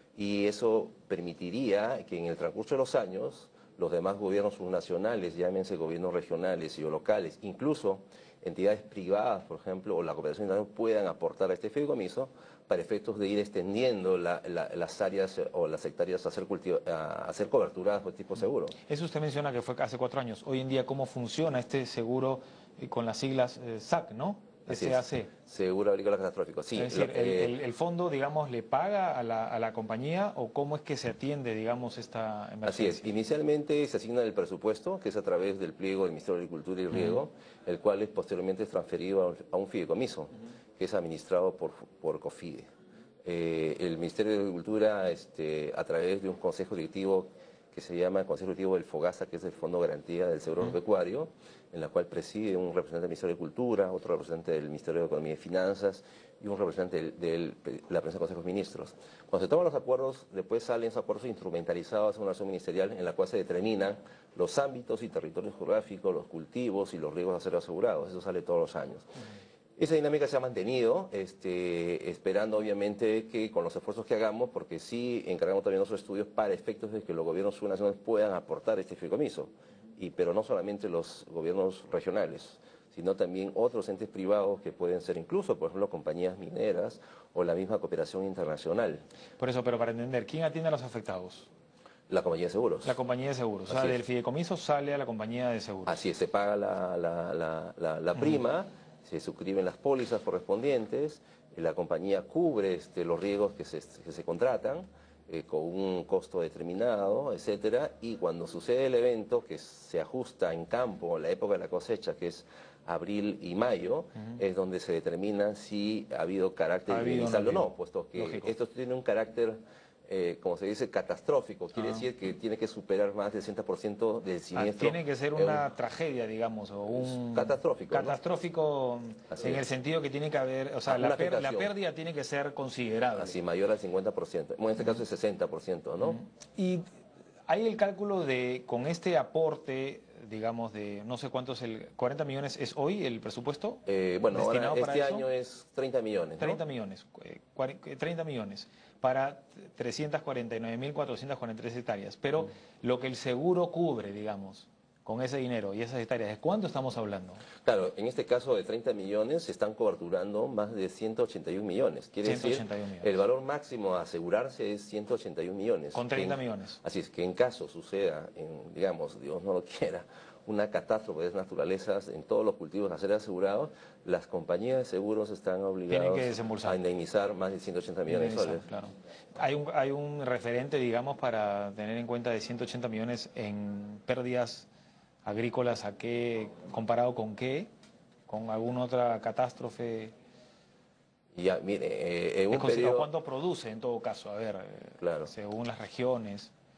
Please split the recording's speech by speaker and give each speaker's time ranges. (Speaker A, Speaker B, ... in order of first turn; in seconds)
Speaker A: 0.2-18.8, 24.7-27.5, 32.6-42.7, 43.2-69.1, 69.8-89.0, 92.1-93.0, 93.7-94.0, 95.9-125.7, 126.9-128.2, 129.3-129.6, 130.8-131.7, 133.2-136.2, 143.9-146.6, 157.7-178.7, 191.4-193.1, 195.0-195.3
Speaker B: 18.8-25.3, 26.8-33.1, 36.9-37.2, 89.4-91.5, 92.8-96.0, 116.9-118.5, 121.8-122.1, 124.5-133.4, 136.6-136.8, 137.5-145.3, 146.4-157.4, 162.2-163.2, 165.9-166.8, 175.9-176.8, 178.1-184.7, 185.2-187.7, 188.3-190.1, 192.5-196.5